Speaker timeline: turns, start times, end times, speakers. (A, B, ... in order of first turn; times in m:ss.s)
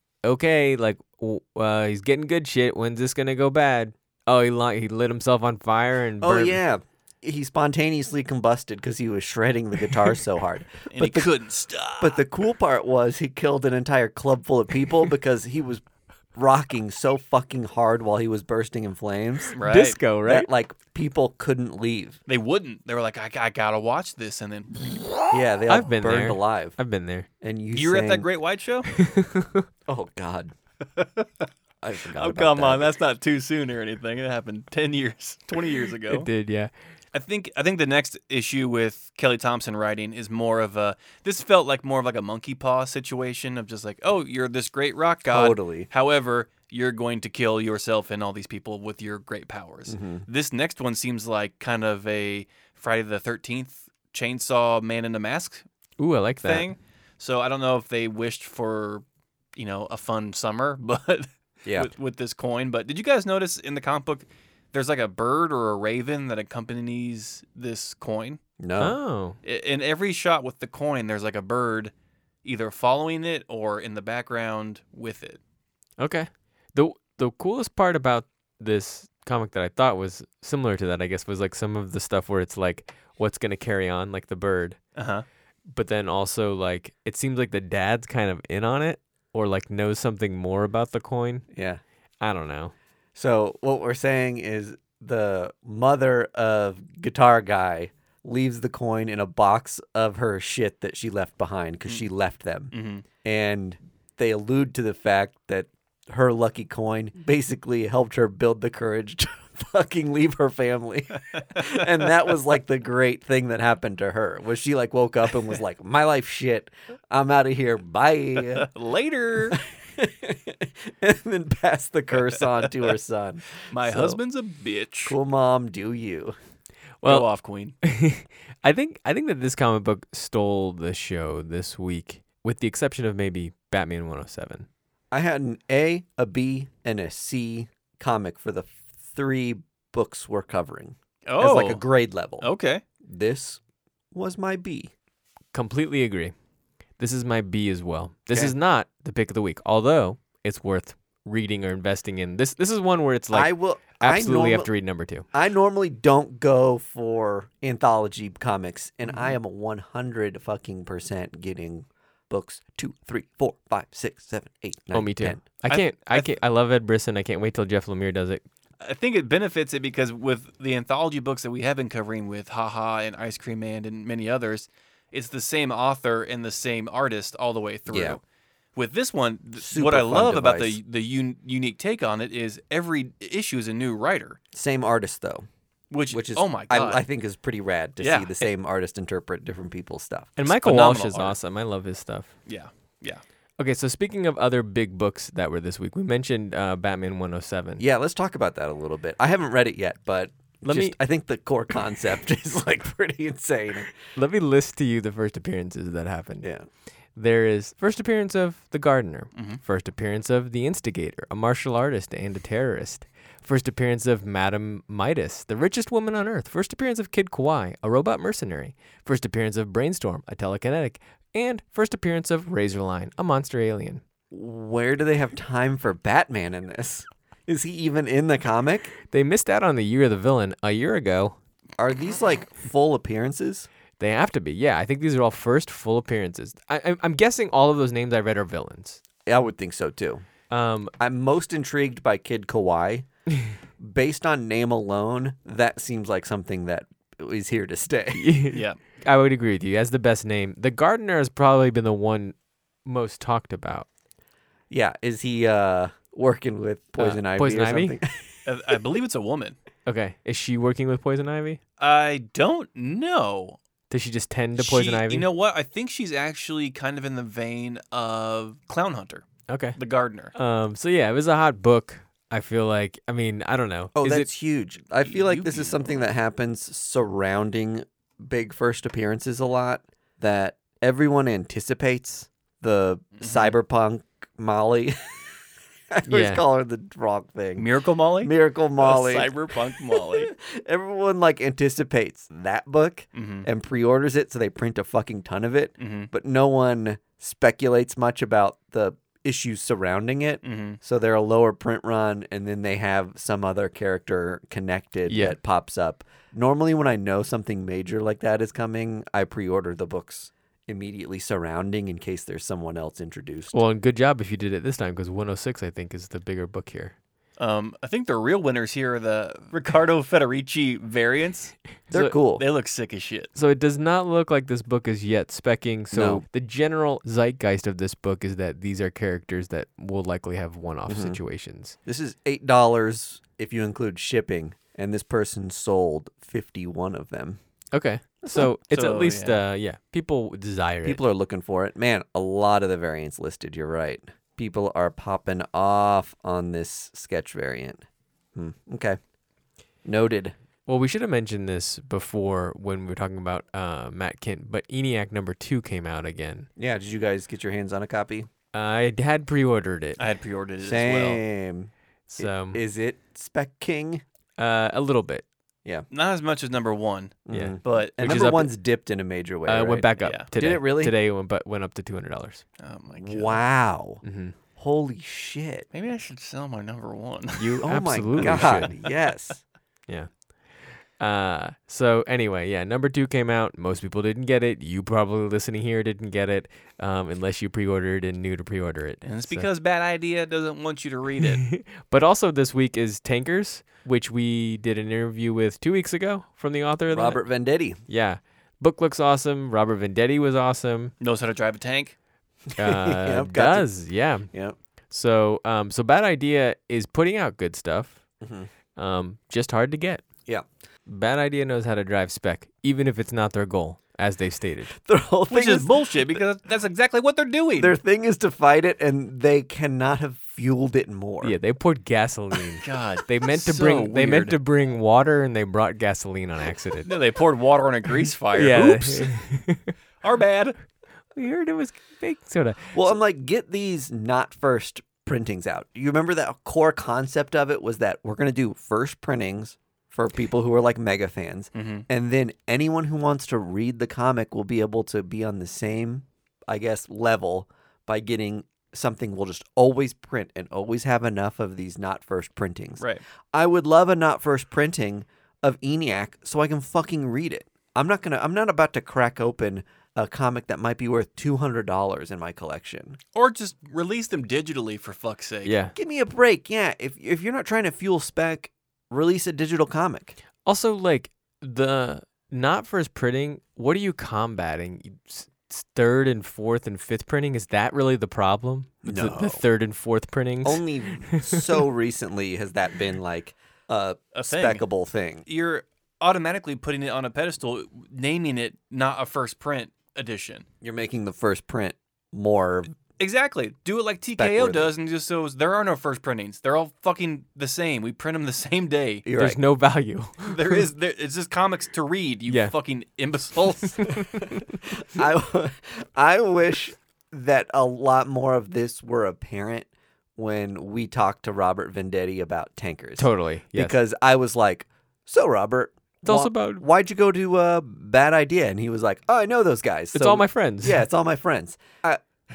0:00.2-0:06.6 A
0:06.2-0:11.3 B
0:10.9-0:12.2 C
0:12.0-0:15.8 B
0:16.4-0:19.6 B
0:19.6-0:20.0 C
0:19.6-0:20.5 A
0:20.2-0:22.2 B
0:22.3-0:25.2 C
0:25.3-0:26.8 B
0:25.7-0:27.3 A
0:27.4-0:28.3 B
0:27.7-0:28.9 C
0:28.9-0:29.6 A
0:29.9-0:30.5 B
0:31.0-0:31.5 C
0:31.8-0:32.9 B
0:32.2-0:36.3 C
0:36.1-0:36.7 A
0:37.1-0:55.6 C
0:45.2-0:45.9 B
0:49.9-0:50.2 B
0:56.0-0:56.7 A
0:56.4-0:59.0 C
0:59.6-1:08.4 C
1:08.6-1:09.0 B
1:08.8-1:09.4 A
1:09.4-1:11.9 C
1:12.4-1:15.4 C
1:16.0-1:24.8 A
1:25.0-1:25.2 C
1:25.7-1:31.5 A
1:31.5-1:31.8 B
1:32.2-1:32.7 A
1:33.1-1:42.7 B
1:42.7-1:43.0 C
1:43.2-1:58.7 B
1:51.3-1:51.8 C
1:58.5-1:59.6 C
1:59.5-2:04.2 B
2:03.7-2:05.2 C
2:05.1-2:06.4 B
2:07.0-2:07.3 A
2:07.0-2:07.8 C
2:07.8-2:14.7 A
2:15.1-2:22.5 B
2:21.2-2:21.8 C
2:22.4-2:22.8 C
2:23.0-2:23.6 B
2:24.1-2:24.9 B
2:25.5-2:26.3 A
2:27.0-2:35.2 A
2:33.3-2:34.7 B
2:35.3-2:45.4 B
2:44.9-2:48.4 A
2:45.7-2:46.3 C
2:48.8-2:58.2 C
2:57.9-2:58.2 B
2:58.8-3:04.4 C
2:59.6-3:00.8 B
3:04.5-3:05.5 B
3:05.9-3:07.0 C
3:06.1-3:10.4 B
3:08.0-3:08.5 C
3:10.4-3:12.3 A
3:10.5-3:11.4 C
3:12.5-3:13.2 C
3:13.6-3:17.8 A
3:17.8-3:23.9 B
3:20.6-3:21.0 A
3:24.1-3:26.5 A
3:27.1-3:44.0 A
3:29.4-3:29.6 C
3:44.3-3:48.9 B
3:49.1-3:51.4 A
3:51.8-3:53.7 B
3:54.0-3:59.0 A
3:59.2-4:00.2 B
4:00.5-4:00.9 A
4:01.0-4:03.1 B
4:03.8-4:08.3 B
4:08.1-4:13.9 A
4:08.5-4:08.8 C
4:14.7-4:18.7 B
4:17.0-4:18.0 A
4:18.4-4:19.6 C
4:19.9-4:21.6 A
4:21.8-4:23.6 C
4:23.9-4:25.3 A
4:24.6-4:30.3 C
4:29.5-4:29.8 A
4:30.3-4:34.3 A
4:34.0-4:45.3 B
4:35.0-4:35.9 C
4:43.2-4:43.5 C
4:45.9-4:47.7 B
4:46.1-4:46.4 A
4:47.6-4:50.3 C
4:48.2-5:13.6 B
4:53.1-4:53.5 C
4:55.8-4:56.1 C
5:00.4-5:00.8 C
5:05.1-5:05.4 A
5:13.5-5:17.0 A
5:17.4-5:21.6 C
5:21.9-5:22.4 B
5:22.3-5:23.3 C
5:23.4-5:31.8 A
5:25.9-5:26.2 B
5:30.9-5:31.2 B
5:31.9-5:37.4 B
5:37.7-5:41.0 A
5:38.7-5:39.4 C
5:40.8-5:47.8 B
5:48.4-5:49.0 B
5:49.8-5:50.4 B
5:50.7-5:56.5 A
5:56.6-5:58.3 B
5:58.5-6:00.0 A
6:00.0-6:01.2 C
6:00.6-6:04.0 B
6:02.1-6:02.6 A
6:04.4-6:05.2 A
6:05.9-6:08.3 C
6:07.2-6:11.0 B
6:07.3-6:08.5 A
6:09.5-6:12.4 A
6:10.0-6:10.3 C
6:12.6-6:13.4 C
6:13.0-6:14.0 B
6:14.0-6:14.4 A
6:14.6-6:15.6 B
6:15.7-6:17.6 C
6:17.4-6:18.8 A
6:17.6-6:19.4 B
6:18.2-6:18.6 C
6:21.0-6:29.5 A
6:29.0-6:31.4 C
6:31.2-6:37.2 A
6:36.9-6:37.8 B
6:37.9-6:40.9 A
6:41.0-6:42.0 C
6:42.5-6:43.7 B
6:42.6-6:44.3 A
6:44.9-6:48.0 A
6:48.2-6:48.5 B
6:48.8-6:50.0 A
6:50.9-6:54.7 A
6:54.8-6:56.2 B
6:55.3-6:57.8 C
6:57.6-7:01.3 B
7:01.2-7:06.9 A
7:02.6-7:04.4 C
7:06.8-7:09.2 C
7:08.3-7:09.7 A
7:10.0-7:10.6 C
7:11.2-7:12.8 A
7:12.7-7:43.0 B
7:21.5-7:21.8 C
7:43.2-7:45.5 C
7:45.4-7:45.7 A
7:45.8-7:50.2 B
7:50.4-8:01.5 A
7:58.8-7:59.4 B
8:00.4-8:05.2 B
8:04.1-8:04.6 C
8:05.2-8:10.4 C
8:10.6-8:12.7 B
8:13.0-8:19.0 C
8:14.2-8:14.7 B
8:19.0-8:19.4 B
8:19.2-8:20.6 A
8:20.2-8:24.0 C
8:22.3-8:22.5 A
8:23.8-8:24.3 A
8:24.7-8:42.0 B
8:33.0-8:33.8 A
8:36.0-8:36.6 A
8:40.0-8:40.8 A